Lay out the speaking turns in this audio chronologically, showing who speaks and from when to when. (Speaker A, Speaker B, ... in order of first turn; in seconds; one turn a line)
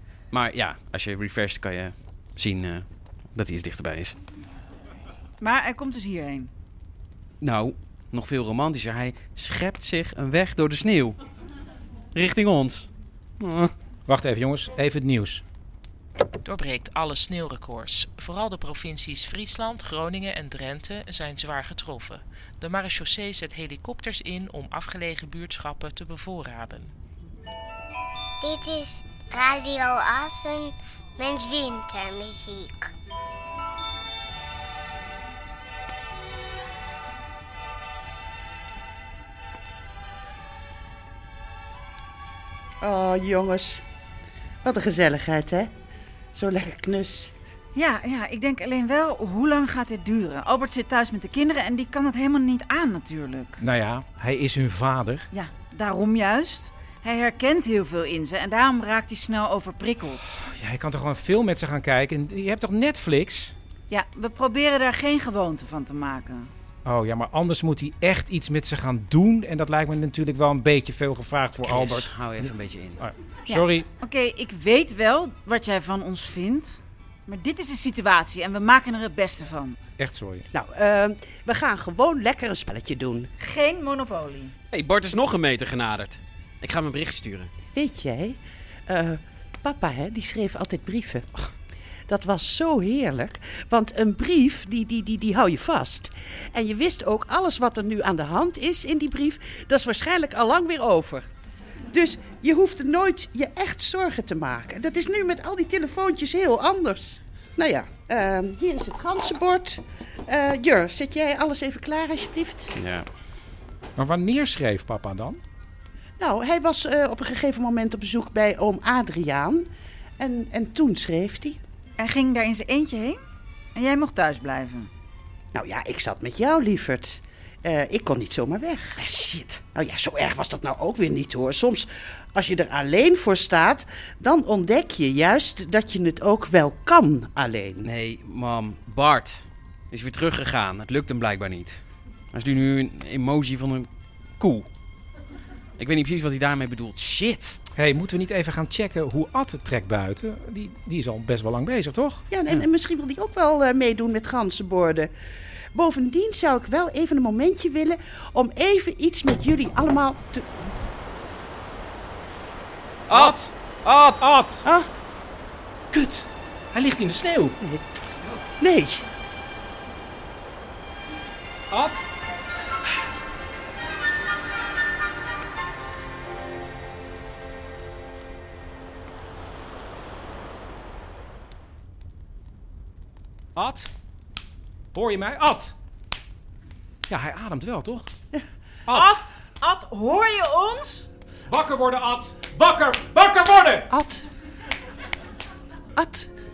Speaker A: 0.3-4.2
Speaker B: 5.4-6.5
Speaker A: 7.4-11.2
Speaker A: 12.1-12.9
Speaker A: 13.4-13.7
Speaker C: 14.1-15.4
Speaker D: 16.4-26.9
Speaker E: 28.4-32.9
Speaker F: 42.8-43.8
Speaker F: 44.6-45.7
Speaker F: 46.3-47.3
Speaker B: 47.7-53.6
Speaker C: 53.6-55.3
Speaker B: 55.3-60.4
Speaker C: 60.4-63.5
Speaker B: 63.9-66.5
Speaker C: 66.8-72.1
Speaker A: 71.6-73.0
Speaker C: 73.0-73.9
Speaker B: 73.5-79.8
Speaker C: 80.0-80.4
Speaker F: 80.5-83.3
Speaker B: 83.4-84.5
Speaker A: 84.7-87.5
Speaker F: 87.7-91.3
Speaker F: 92.1-101.3
Speaker F: 101.9-112.7
Speaker A: 112.7-113.1
Speaker C: 114.0-115.4
Speaker F: 116.2-119.7
Speaker F: 120.2-121.6
Speaker B: 122.0-123.2
Speaker B: 123.8-124.9
Speaker F: 125.5-129.0
Speaker A: 129.0-129.6
Speaker F: 129.7-137.9
Speaker A: 137.8-141.8
Speaker A: 142.3-144.7
Speaker A: 145.8-147.6
Speaker C: 147.8-152.2
Speaker F: 152.3-155.1
Speaker F: 155.7-160.6
Speaker A: 163.1-164.2
Speaker C: 163.1-163.5
Speaker C: 164.2-164.7
Speaker C: 165.9-167.6
Speaker F: 168.6-169.0
Speaker C: 171.7-172.0
Speaker C: 183.6-183.9
Speaker C: 184.9-185.7
Speaker C: 187.1-188.1
Speaker C: 188.9-189.2
Speaker B: 188.9-191.1
Speaker C: 191.5-193.9
Speaker F: 193.9-194.2
Speaker F: 195.9-196.3